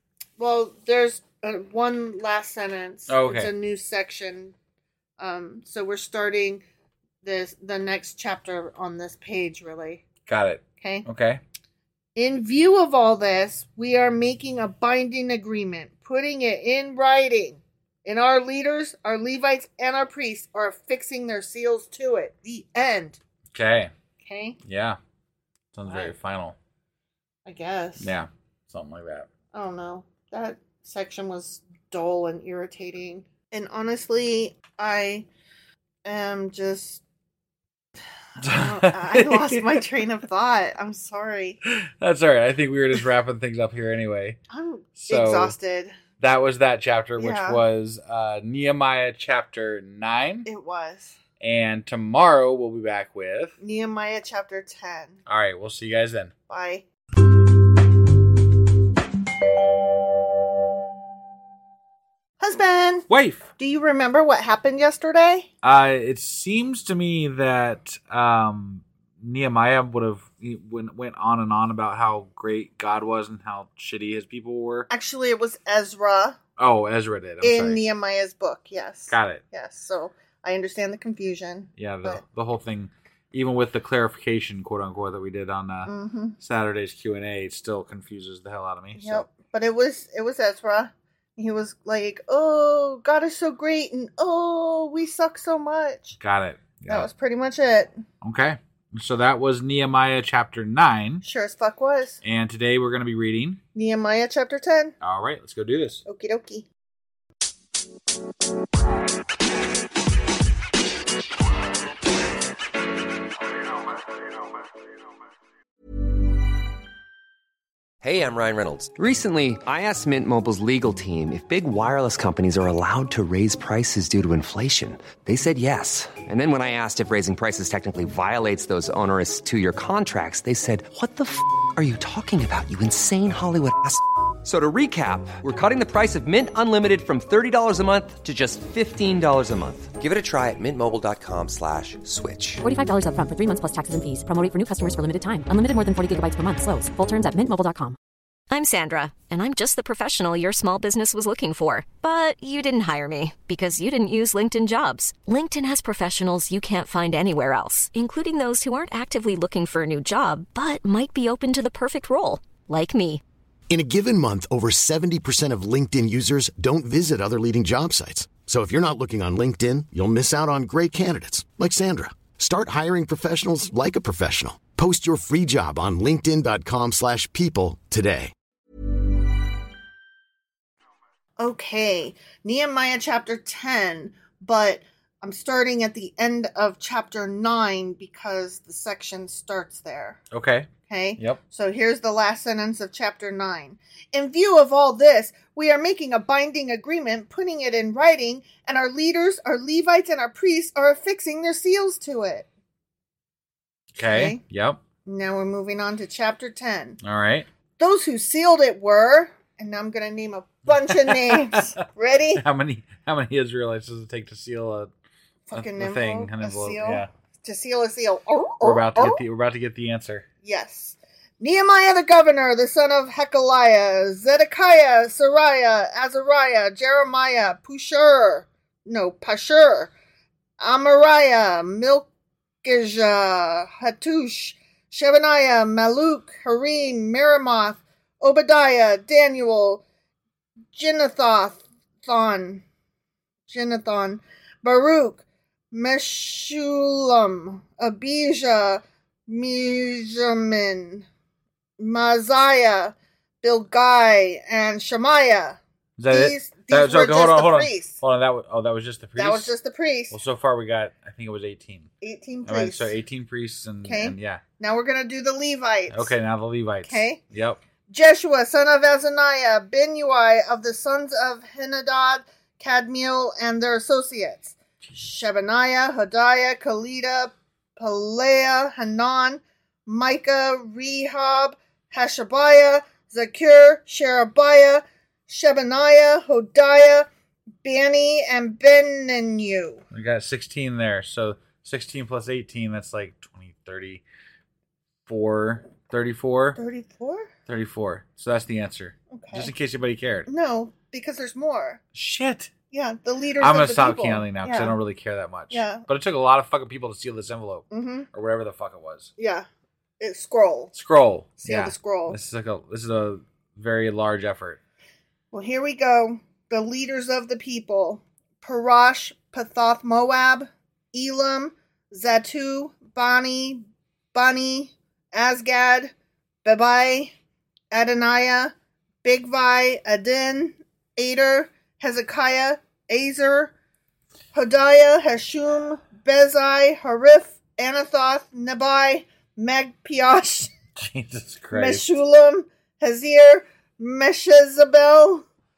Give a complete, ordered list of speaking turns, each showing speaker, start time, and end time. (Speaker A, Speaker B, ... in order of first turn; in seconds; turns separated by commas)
Speaker A: 0.4-4.5, Speaker B: 3.1-3.5, Speaker A: 5.2-6.6, Speaker A: 7.2-10.0, Speaker B: 10.3-11.4, Speaker A: 10.8-11.1, Speaker A: 12.2-23.2, Speaker B: 23.5-23.9, Speaker A: 24.2-24.6, Speaker B: 24.6-25.0, Speaker B: 25.7-26.6, Speaker A: 25.9-26.1, Speaker A: 27.5-28.1, Speaker B: 28.0-29.3, Speaker A: 29.5-35.3, Speaker A: 36.0-37.0, Speaker B: 38.4-39.6, Speaker A: 38.5-41.6, Speaker B: 41.7-44.4, Speaker A: 44.5-46.0, Speaker B: 45.0-45.6, Speaker B: 46.2-50.5, Speaker A: 47.2-47.6, Speaker A: 50.5-51.2, Speaker B: 51.4-53.6, Speaker A: 53.6-55.2, Speaker B: 55.3-56.3, Speaker A: 56.5-56.9, Speaker A: 62.4-63.1, Speaker B: 63.1-63.5, Speaker A: 63.6-65.5, Speaker B: 65.6-74.9, Speaker A: 74.9-76.4, Speaker B: 76.6-77.8, Speaker A: 77.4-82.2, Speaker B: 79.1-79.4, Speaker B: 81.8-89.3, Speaker A: 85.9-86.4, Speaker A: 89.0-96.2, Speaker B: 96.2-97.1, Speaker A: 96.9-98.0, Speaker B: 98.2-101.2, Speaker A: 101.2-102.2, Speaker B: 102.2-103.6, Speaker A: 103.8-105.0, Speaker B: 105.0-106.0, Speaker A: 106.0-106.7, Speaker C: 118.0-142.6, Speaker D: 142.6-148.0, Speaker E: 148.5-163.2, Speaker F: 163.7-178.3, Speaker A: 181.4-190.2, Speaker B: 190.3-191.4, Speaker A: 190.9-202.5, Speaker B: 204.0-204.8, Speaker A: 204.1-204.4, Speaker A: 205.1-207.0, Speaker B: 207.0-207.5, Speaker A: 207.8-212.4, Speaker B: 210.7-211.6, Speaker B: 212.4-214.9, Speaker A: 215.5-219.2, Speaker B: 215.5-217.1, Speaker B: 218.6-220.2, Speaker A: 220.4-229.9, Speaker A: 230.6-232.1, Speaker A: 232.6-239.8, Speaker A: 240.7-242.6, Speaker A: 243.5-251.1, Speaker A: 251.8-258.0, Speaker B: 256.0-259.5, Speaker A: 259.2-260.2, Speaker B: 260.1-261.9, Speaker A: 262.0-262.9, Speaker B: 262.4-264.4, Speaker A: 263.9-266.1, Speaker B: 265.9-267.6, Speaker A: 266.9-267.2, Speaker A: 267.9-287.1, Speaker A: 287.6-289.8, Speaker B: 289.9-294.0, Speaker B: 295.1-296.6, Speaker A: 296.6-297.3, Speaker B: 297.5-300.3, Speaker A: 299.1-299.5, Speaker A: 300.3-301.8, Speaker B: 301.9-302.5, Speaker A: 302.7-304.8, Speaker B: 303.4-309.1, Speaker A: 305.5-305.9, Speaker A: 307.7-308.1, Speaker A: 309.2-309.5, Speaker A: 310.0-310.7, Speaker B: 310.7-314.6, Speaker A: 311.4-312.2, Speaker A: 315.3-325.9, Speaker A: 326.4-327.1, Speaker A: 327.7-328.5, Speaker A: 329.0-333.5, Speaker A: 334.3-340.5, Speaker B: 340.8-342.0, Speaker A: 341.5-345.2